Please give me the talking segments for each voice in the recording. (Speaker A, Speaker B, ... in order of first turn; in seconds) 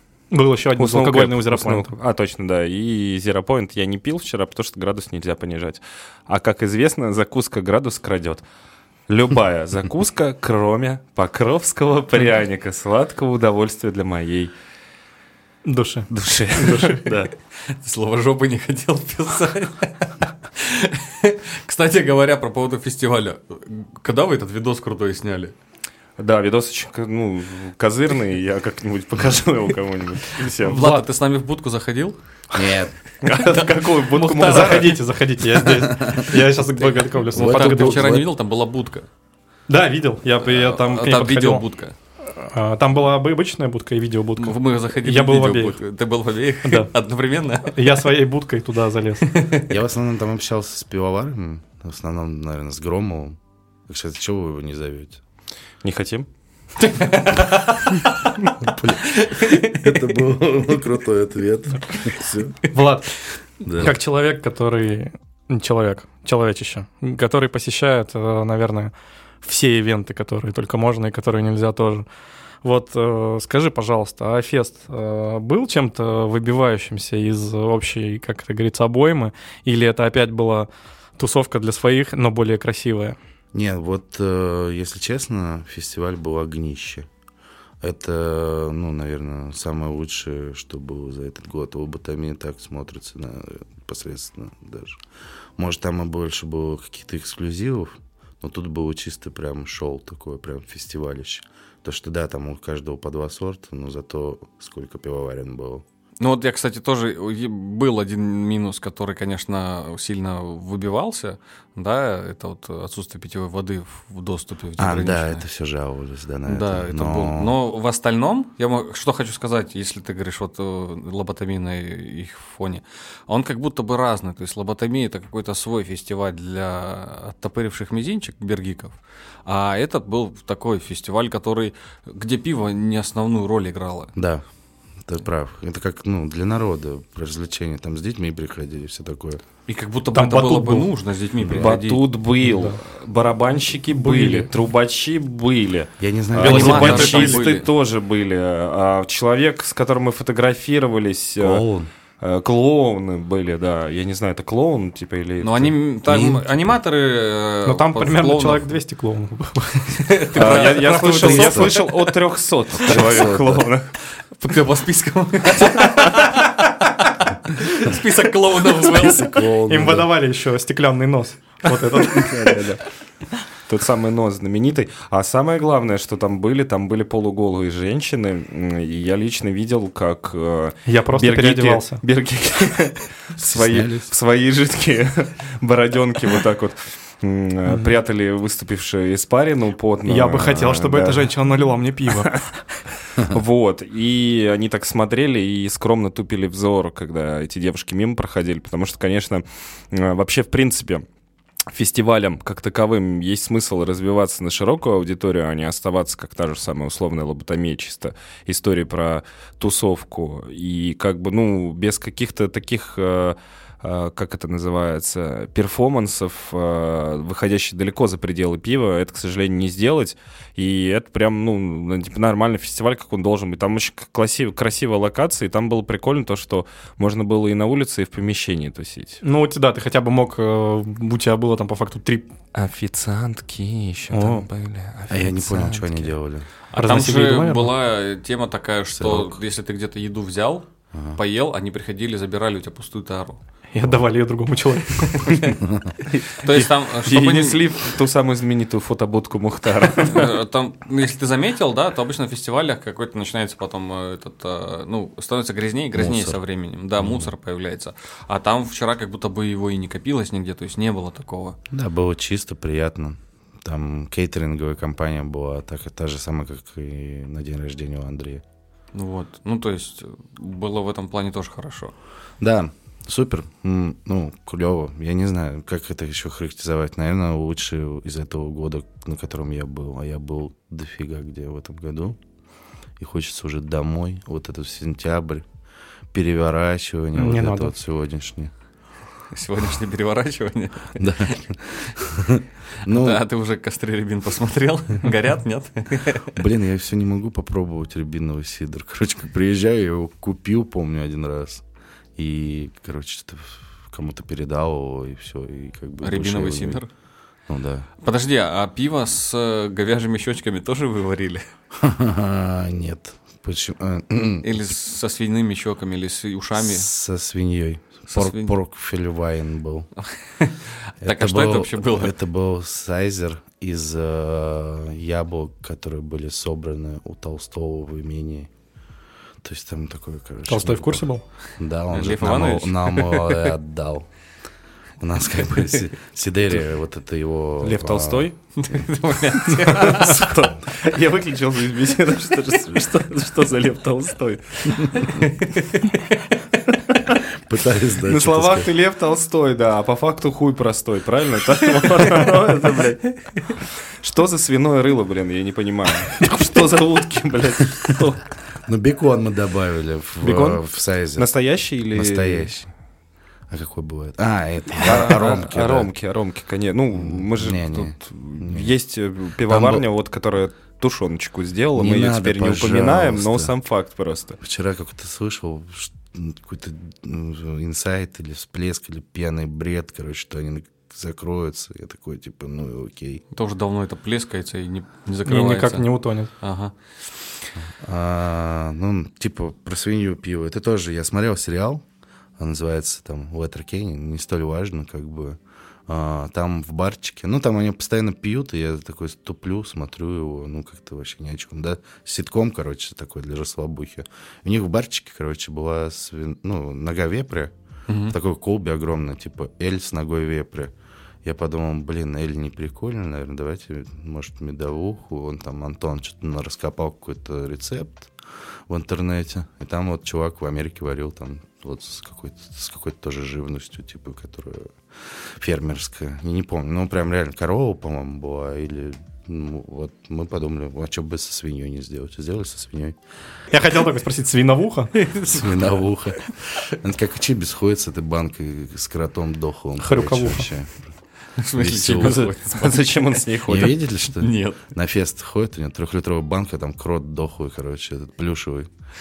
Speaker A: 0.3-1.9, 15.7-17.1, 30.7-31.0, 33.5-38.2, 39.7-41.6, 42.4-45.8, 47.7-49.3, 62.7-63.1, 63.7-68.9, 69.4-72.0, 72.6-83.2, 140.1-140.9, 142.4-142.8, 143.9-144.5, 146.4-147.4, 157.7-161.2, 169.7-172.7, 180.9-182.0, 190.1-192.4, 229.2-232.3, 234.1-234.5, 236.7-237.7, 243.7-245.5, 287.2-287.7, 330.5-331.2, 360.2-360.6, 385.3-386.3, 433.5-434.9, 439.8-440.5
Speaker B: 0.8-8.4, 9.1-14.5, 16.1-17.3, 26.2-30.9, 33.2-34.9, 55.8-56.3, 141.5-151.7, 152.2-155.8, 160.3-163.9, 172.1-172.8, 173.7-191.3, 193.2-201.1, 201.7-229.2, 232.5-236.1, 246.1-250.4, 337.6-338.4, 339.4-345.4, 348.0-358.2, 361.2-362.5, 364.8-374.4, 442.0-443.8
Speaker C: 17.7-25.5, 30.4-32.2, 33.3-35.0, 36.8-39.1, 40.4-42.0, 44.4-47.8, 49.2-49.7, 56.8-58.3, 59.0-60.0, 106.2-115.4, 116.5-134.1, 139.7-142.1, 146.4-147.7, 155.4-158.7, 160.0-161.9, 164.4-166.7, 167.5-169.4, 236.7-244.0, 245.0-245.4, 246.4-247.6, 250.0-261.6, 268.9-271.9, 289.3-291.3, 292.8-296.4, 306.0-306.9, 308.0-311.5, 314.4-316.9, 318.1-318.5, 320.0-322.1, 331.9-333.5, 338.6-340.2, 383.3-385.9, 386.4-386.7, 407.9-408.1, 435.0-435.5, 441.4-443.2, 444.1-444.6
Speaker D: 32.5-32.9, 35.7-36.4, 37.3-38.3, 49.7-53.4, 53.9-55.2, 58.7-62.7, 63.6-64.0, 83.5-87.1, 87.8-95.0, 95.6-105.8, 114.8-117.5, 134.2-134.4, 135.1-139.4, 146.0-147.3, 151.4-151.9, 161.2-161.8, 162.7-163.7, 169.0-170.1, 183.4-184.1, 235.1-236.5, 238.9-239.4, 240.9-241.2, 245.6-245.9, 255.9-256.4, 257.0-257.3, 261.7-268.4, 272.4-282.2, 283.0-285.5, 286.1-288.5, 291.0-293.2, 296.3-301.6, 302.2-306.8, 307.5-307.9, 311.8-314.6, 316.6-319.9, 321.0-328.5, 329.4-331.1, 331.6-334.1, 335.0-338.3, 347.3-348.7, 358.7-361.3, 361.9-362.7, 363.5-365.9, 366.9-368.7, 369.4-369.9, 371.8-373.5, 374.4-383.2, 387.6-391.8, 392.4-407.5, 408.1-410.7, 411.2-418.1, 418.7-433.0, 435.2-440.7, 441.6-442.3, 443.5-448.7